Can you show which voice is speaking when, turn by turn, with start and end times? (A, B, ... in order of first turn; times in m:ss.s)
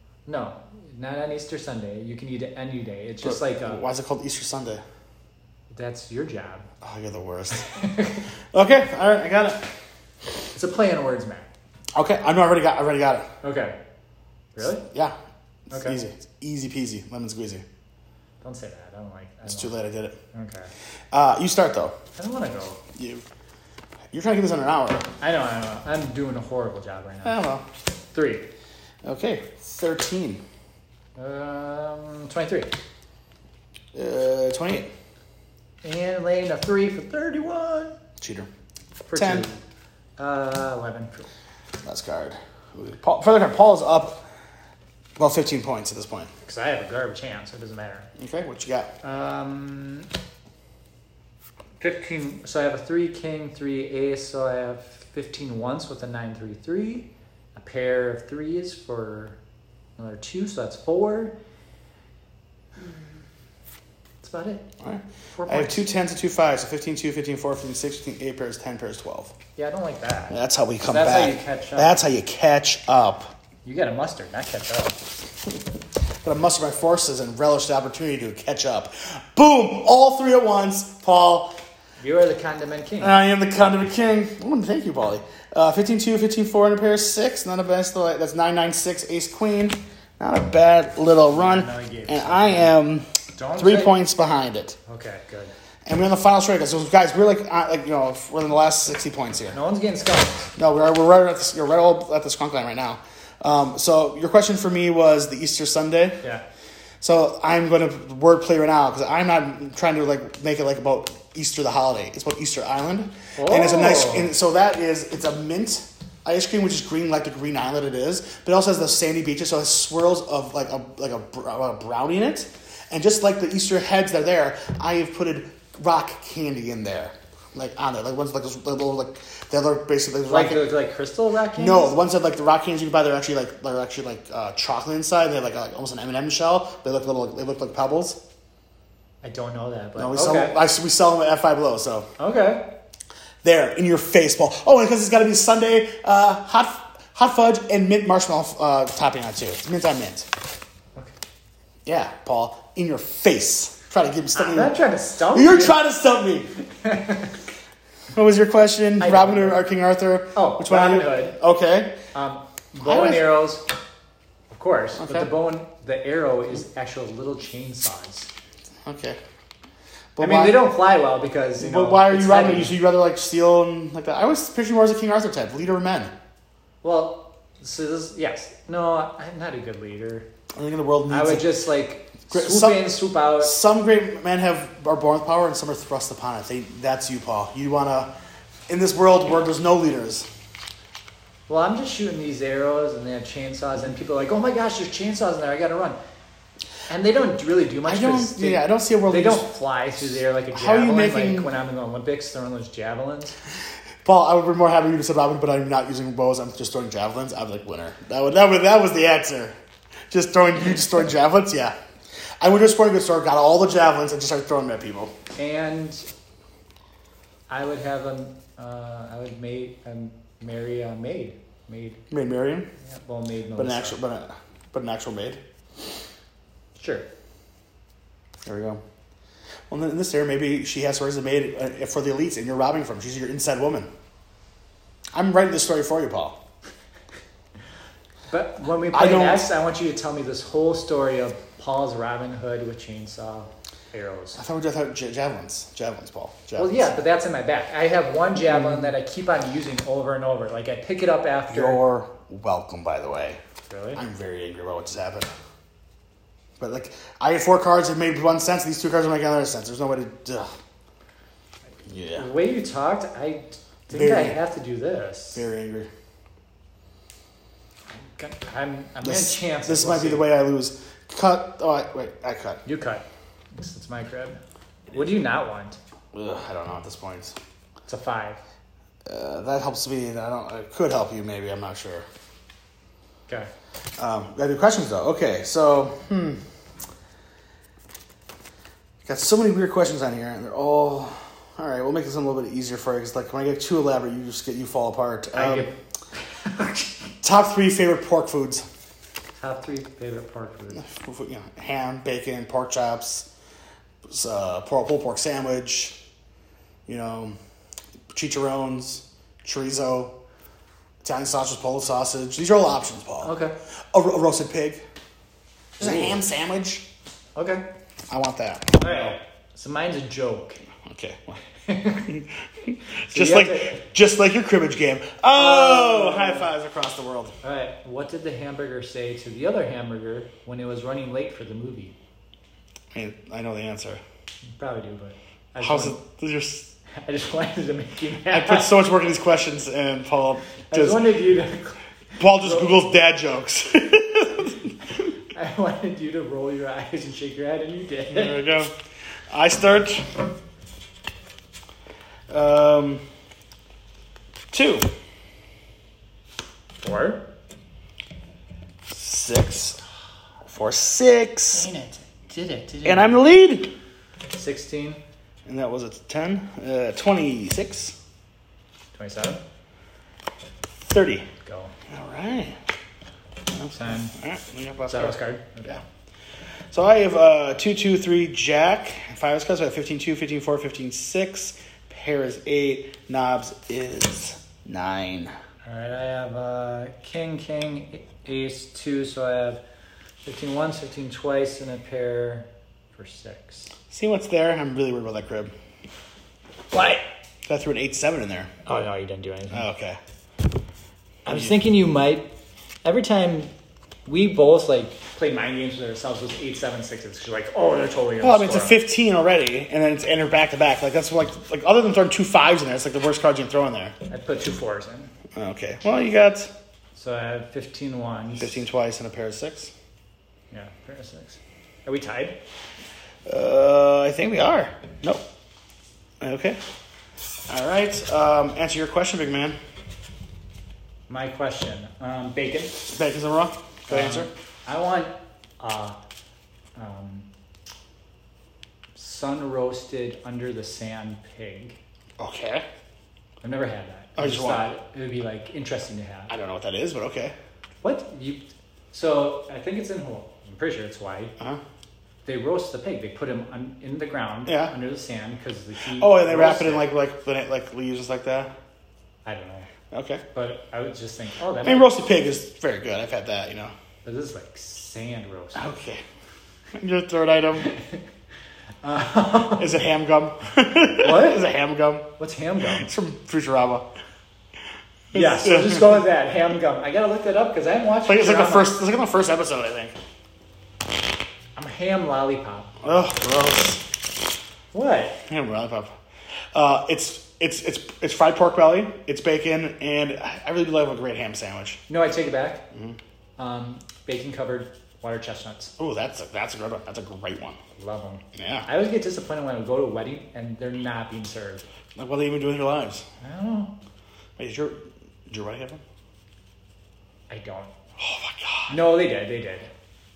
0:00.2-0:03.8 A
0:03.2-0:04.8 B
0:05.7-0:06.7 A
0:06.8-0:07.8 B
0:07.5-0:08.2 A
0:08.5-0:09.6 B
0:10.5-0:11.5 A
0:12.0-0:13.3 B
0:13.4-0:13.8 A
0:14.6-0:14.8 A
0:14.8-0:15.2 B
0:15.7-0:16.0 A
0:15.7-0:17.6 B
0:18.4-0:19.7 A
0:19.5-0:20.2 B
0:20.3-0:20.7 A
0:21.1-0:21.9 B
0:22.2-0:22.8 A
0:23.0-0:23.2 B
0:24.1-0:25.1 B
0:25.2-0:27.4 A
0:27.2-0:27.6 B
0:28.1-0:28.5 A
0:29.0-0:30.4 B
0:31.2-0:32.7 A
0:33.9-0:34.9 B
0:35.8-0:38.0 A
0:38.2-0:38.5 B
0:39.1-0:39.6 A
0:39.1-0:39.5 B
0:40.2-0:41.3 A
0:41.8-0:44.2 B
0:45.2-0:46.3 B
0:46.4-0:48.1 A
0:48.2-0:48.9 B
0:49.0-0:50.1 A
0:51.8-0:59.4 A
1:00.0-1:01.3 A
1:02.8-1:03.1 A
1:04.2-1:04.7 A
1:04.8-1:09.3 B
1:05.3-1:05.8 A
1:09.6-1:12.1 A
1:10.3-1:13.3 B
1:13.6-1:15.0 A
1:16.2-1:21.6 B
1:22.0-1:23.2 A
1:23.0-1:34.8 B
1:31.3-1:32.8 A
1:33.3-1:34.0 A
1:34.9-1:35.5 A
1:35.8-1:39.6 B
1:39.5-1:40.5 A
1:40.6-1:46.2 B
1:47.0-2:10.7 B
1:53.4-1:54.3 A
2:10.3-2:12.0 A
2:11.5-2:18.2 B
2:19.2-2:20.6 A
2:20.0-2:22.1 B
2:22.2-2:22.6 A
2:23.4-2:30.3 B
2:31.8-2:34.8 B
2:34.3-2:35.8 A
2:35.3-2:36.5 B
2:36.7-2:37.4 A
2:38.1-2:42.0 B
2:39.0-2:39.6 A
2:40.3-2:41.4 A
2:42.1-2:43.6 A
2:42.8-2:43.3 B
2:44.5-2:48.3 A
2:45.0-2:45.3 B
2:48.8-2:49.2 B
2:50.2-2:50.6 B
2:50.2-2:52.8 A
2:51.6-2:56.1 B
2:56.8-3:00.3 A
3:00.5-3:01.5 B
3:01.1-3:03.6 A
3:02.3-3:08.1 B
3:08.7-3:10.3 B
3:11.5-3:16.0 A
3:16.9-3:23.4 A
3:17.8-3:19.5 B
3:20.0-3:21.5 B
3:24.0-3:29.5 B
3:30.1-3:31.7 B
3:32.4-3:35.1 B
3:35.4-3:36.1 A
3:37.5-3:42.0 A
3:42.1-3:42.7 B
3:42.8-3:44.0 A
3:43.6-3:45.4 B
3:46.8-3:47.1 A
3:48.4-3:48.8 B
3:49.7-3:53.9 B
3:55.1-3:56.4 B
3:58.3-4:04.4 A
3:58.9-3:59.5 B
4:04.3-4:06.9 B
4:06.6-4:11.8 A
4:08.5-4:08.9 B
4:11.5-4:13.4 B
4:13.7-4:14.0 A
4:14.0-4:15.3 B
4:16.6-4:20.5 B
4:21.9-4:22.3 B
4:22.2-4:25.4 A
4:23.9-4:24.4 B
4:25.3-4:25.9 B
4:28.1-4:30.3 A
4:29.0-4:32.6 B
4:32.6-4:34.4 A
4:34.9-4:35.8 A
4:36.1-4:37.4 B
4:37.9-4:38.4 A
4:39.1-4:42.0 B
4:44.0-4:46.4 B
4:49.0-4:55.7 B
4:55.3-4:57.1 A
4:57.2-4:58.6 B
4:59.4-5:00.8 A
5:00.7-5:03.3 B
5:04.0-5:06.0 B
5:06.9-5:07.4 B
5:08.1-5:10.1 B
5:11.0-5:13.3 B
5:13.2-5:13.5 A
5:13.9-5:14.8 B
5:15.8-5:16.8 B
5:15.8-5:16.2 A
5:17.4-5:17.6 A
5:18.1-5:19.2 B
5:18.8-5:20.6 A
5:20.8-5:21.4 B
5:21.6-5:22.1 A
5:22.0-5:27.3 B
5:23.1-5:23.8 A
5:25.3-5:26.5 A
5:27.4-5:31.9 A
5:32.9-5:34.0 B
5:34.6-5:36.0 A
5:35.6-5:36.7 B
5:36.9-5:38.7 A
5:38.3-5:41.2 B
5:40.7-5:42.8 A
5:42.2-5:44.7 B
5:45.3-5:48.5 A
5:48.1-5:48.7 B
5:49.3-5:50.2 B
5:52.3-5:53.0 B
5:54.5-5:54.9 B
5:56.8-5:57.2 A
5:58.9-5:59.8 B
6:00.4-6:01.7 B
6:01.5-6:03.2 A
6:02.8-6:03.7 B
6:04.3-6:05.0 A
6:05.4-6:08.0 B
6:08.9-6:09.4 A
6:10.8-6:11.3 B
6:11.4-6:11.7 A
6:11.9-6:12.6 B
6:13.5-6:15.8 B
6:13.7-6:14.1 A
6:14.9-6:15.8 A
6:16.7-6:25.3 B
6:25.6-6:29.6 A
6:30.2-6:33.7 A
6:33.9-6:35.5 B
6:36.7-6:37.0 A
6:37.4-6:38.5 B
6:38.6-6:39.6 A
6:39.5-6:40.0 B
6:41.2-6:42.3 A
6:41.3-6:41.6 B
6:42.8-6:43.5 A
6:44.0-6:48.8 A
6:48.2-6:53.9 B
6:54.1-6:55.1 A
6:55.3-6:56.5 B
6:57.0-6:58.6 A
6:58.4-6:59.7 B
7:00.5-7:02.4 A
7:03.2-7:05.2 B
7:06.2-7:06.6 B
7:07.5-7:09.6 B
7:11.1-7:12.8 A
7:12.9-7:14.3 B
7:13.9-7:16.0 A
7:16.8-7:17.3 A
7:19.0-7:21.8 A
7:22.2-7:22.6 B
7:23.4-7:26.3 A
7:24.2-7:24.7 B
7:26.3-7:27.3 B
7:27.8-7:31.3 A
7:32.2-7:36.9 A
7:34.4-7:34.7 B
7:35.9-7:38.5 B
7:39.2-7:39.7 A
7:39.9-7:40.2 B
7:40.3-7:41.9 A
7:41.6-7:43.7 B
7:44.0-7:45.7 A
7:45.5-7:46.0 B
7:46.7-7:47.7 B
7:47.6-7:48.0 A
7:48.8-7:49.7 A
7:49.6-7:52.1 B
7:51.0-7:51.4 A
7:52.2-7:52.9 A
7:52.6-7:53.8 B
7:55.1-7:56.0 B
7:55.1-7:58.8 A
7:58.0-7:59.9 B
8:01.6-8:02.8 A
8:02.8-8:03.8 B
8:04.7-8:05.2 A
8:05.3-8:05.9 B
8:06.5-8:11.8 B
8:11.9-8:12.6 A
8:12.7-8:13.0 B
8:13.4-8:15.7 A
8:15.8-8:17.6 B
8:17.8-8:21.6 A
8:18.3-8:18.7 B
8:22.0-8:23.0 B
8:23.2-8:23.7 A
8:24.4-8:25.8 B
8:27.3-8:27.7 A
8:28.0-8:28.8 B
8:28.7-8:29.7 A